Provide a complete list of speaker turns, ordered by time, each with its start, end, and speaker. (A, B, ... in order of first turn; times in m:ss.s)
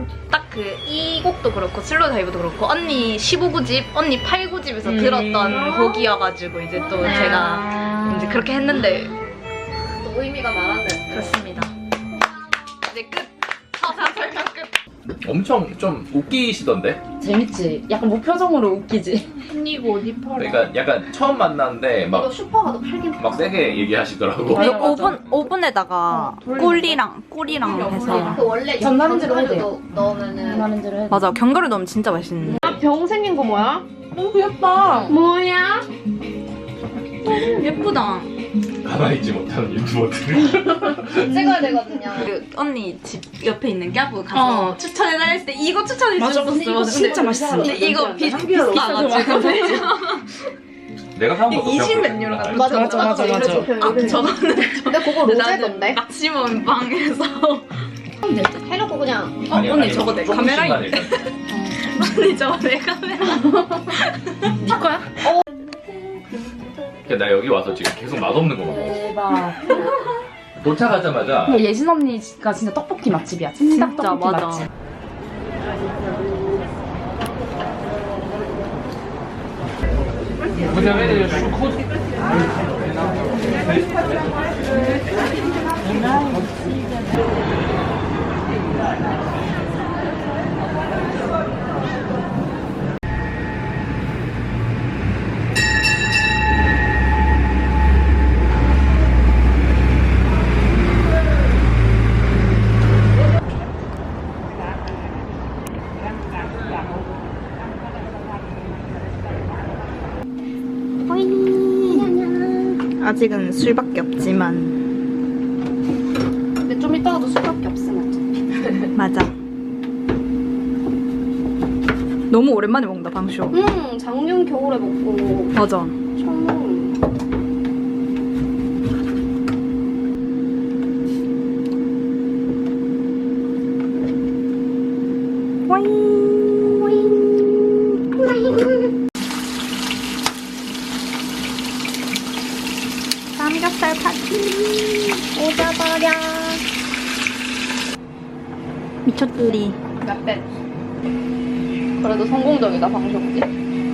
0:00.3-0:09.2 A
0:04.8-0:05.6 B
0:05.4-0:06.2 C
0:06.8-0:07.9 C
0:07.0-0:08.1 B
0:09.9-0:11.3 C
0:11.1-0:11.7 A
0:12.9-0:14.7 A
0:15.2-0:17.0 D
0:17.2-0:20.7 B
0:20.4-0:22.4 D
0:22.1-0:23.9 C
0:23.2-0:25.2 D
0:24.5-0:28.4 A
0:24.5-0:25.3 B
0:26.1-0:31.3 B
0:27.9-0:30.7 C
0:31.1-0:32.6 A
0:32.6-0:33.9 C
0:34.2-0:35.2 B
0:35.1-0:35.9 C
0:37.2-0:38.3 A
0:38.8-0:41.4 D
0:41.1-0:42.3 C
0:41.3-0:50.3 A
0:44.3-0:44.8 B
0:46.2-0:49.9 B
0:51.2-0:52.8 D
0:51.5-0:57.8 A
0:52.5-0:56.0 C
0:52.8-0:53.7 B
0:58.2-0:58.6 B
0:58.6-0:59.4 C
0:59.5-1:01.4 A
0:59.5-1:01.2 D
1:01.5-1:01.8 B
1:01.9-1:04.5 A
1:04.6-1:05.2 B
1:07.1-1:09.0 D
1:08.6-1:09.9 B
1:10.6-1:11.7 D
1:11.5-1:14.7 B
1:13.6-1:14.7 A
1:51.1-1:52.1 A
1:51.9-1:52.8 C
1:53.0-1:54.8 A
1:56.6-1:58.9 C
1:59.0-1:59.3 A
2:02.3-2:03.6 A
2:03.5-2:05.6 C
2:05.6-2:06.0 A
2:06.2-2:07.0 C
2:15.7-2:16.8 A
2:16.7-2:17.5 C
2:18.1-2:18.9 C
2:23.4-2:25.2 A
2:25.3-2:26.6 C
2:29.0-2:29.8 A
2:30.0-2:30.5 C
2:32.0-2:33.5 C